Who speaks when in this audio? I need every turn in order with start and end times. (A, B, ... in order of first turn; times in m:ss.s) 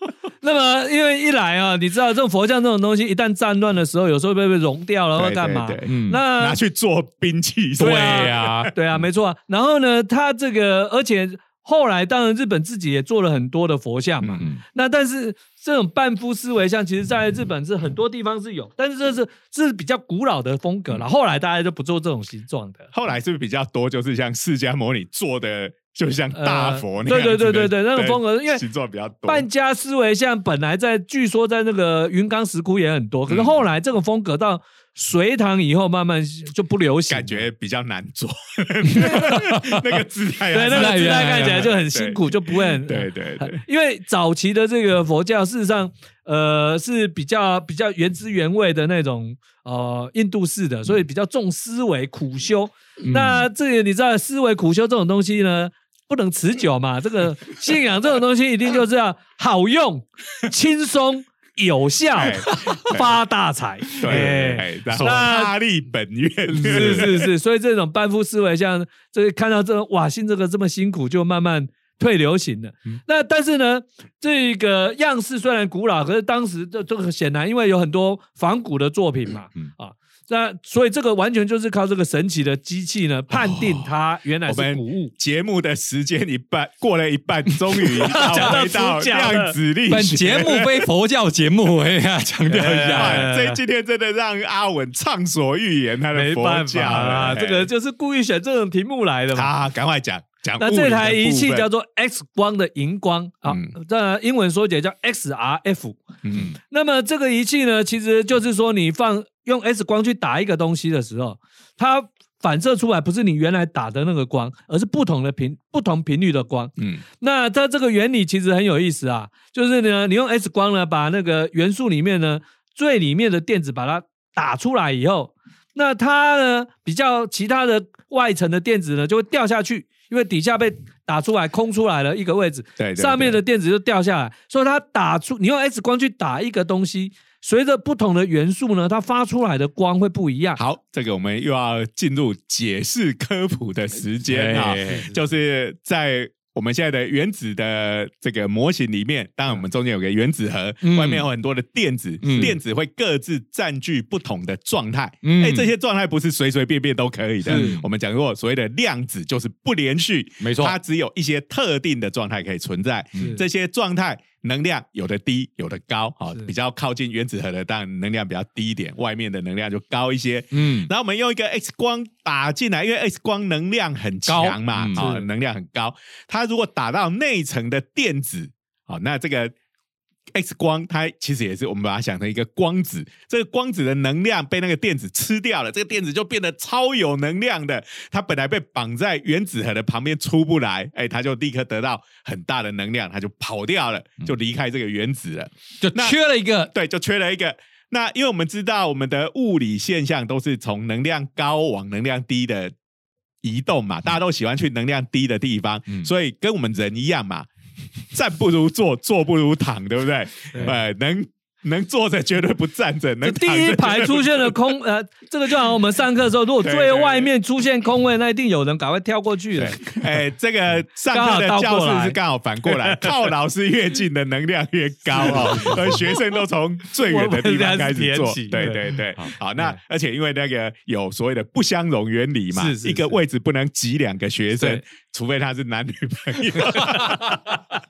0:00.4-0:06.6 A
0:05.2-0:08.7 B
0:05.9-0:06.2 C
0:07.8-0:08.7 C
0:07.8-0:22.9 A
0:22.9-0:29.5 B
0:26.3-0:28.6 A
0:29.2-0:37.4 A
0:37.1-0:43.6 B
0:39.0-0:39.4 A
0:39.0-0:39.9 C
0:40.5-1:05.5 A
0:40.6-0:41.7 C
0:53.1-0:53.4 B
1:02.2-1:03.1 B
1:04.0-1:07.3 B
1:06.5-1:25.1 A
1:23.3-1:23.9 B
1:24.5-1:30.9 B
1:28.0-1:29.5 A
1:29.9-1:33.3 C
1:32.5-1:33.6 A
1:32.6-1:37.7 B
1:36.1-1:39.5 A
1:39.3-1:41.7 B
1:40.6-2:20.6 A
1:43.5-1:43.7 B
1:46.2-1:46.6 B
2:12.8-2:13.4 B
2:20.6-2:59.5 B
2:24.3-2:25.1 C
2:30.8-2:31.3 C
2:32.2-2:32.6 C
2:35.2-2:35.7 C
2:37.5-2:37.8 A
2:37.5-2:37.9 C
2:40.4-2:40.8 C
2:43.2-2:43.4 A
2:50.5-2:50.9 C
2:54.3-2:55.1 C
2:55.0-2:55.3 A
3:00.3-3:22.7 B
3:15.8-3:16.7 C
3:23.4-3:27.5 B
3:28.1-3:34.6 B
3:33.2-3:40.0 A
3:36.6-3:37.3 B
3:39.6-3:57.5 B
3:41.1-3:43.1 A
3:45.2-3:46.0 A
3:47.0-3:48.9 A
3:52.5-3:53.2 A
3:54.6-3:54.8 A
3:56.6-3:57.1 A